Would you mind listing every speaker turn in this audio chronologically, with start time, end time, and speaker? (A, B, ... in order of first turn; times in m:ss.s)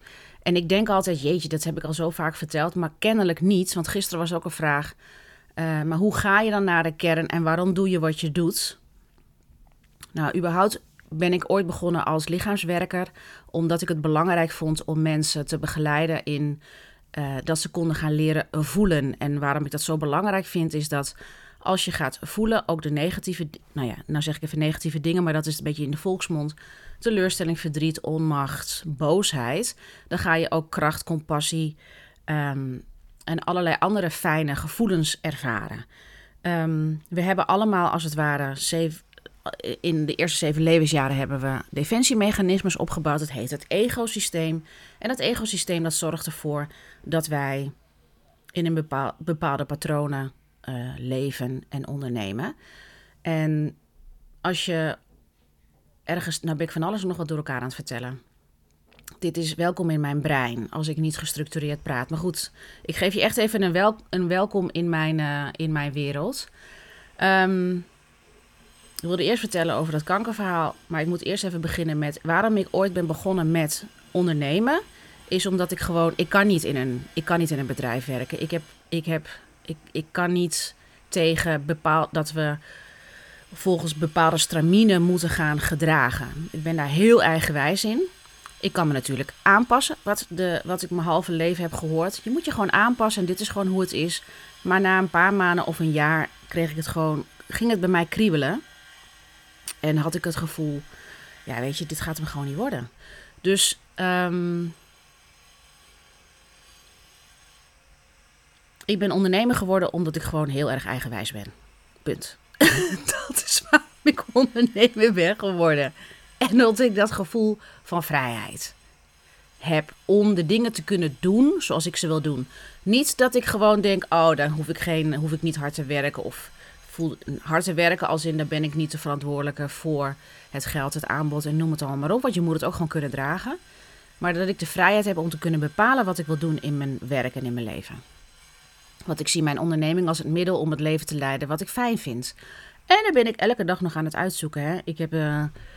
0:00.4-0:04.9 A
0:05.6-0:08.8 A
0:10.2-0:16.6 A
0:17.1-0:35.8 A
0:36.4-0:47.7 A
0:48.6-0:52.5 A
0:53.2-0:53.8 A
0:54.4-0:55.0 A
0:56.1-0:58.2 A
0:59.2-1:06.5 A
1:07.2-1:07.9 A
1:09.0-1:22.6 A
1:23.5-1:28.1 A
1:28.6-1:38.6 A
1:39.8-1:40.9 A
1:41.5-1:42.9 A
1:43.4-1:44.8 A
1:48.9-1:51.5 A
1:52.0-1:58.8 A
1:59.6-2:13.6 A
2:14.2-2:18.0 A
2:19.1-2:22.4 A
2:22.9-2:25.5 A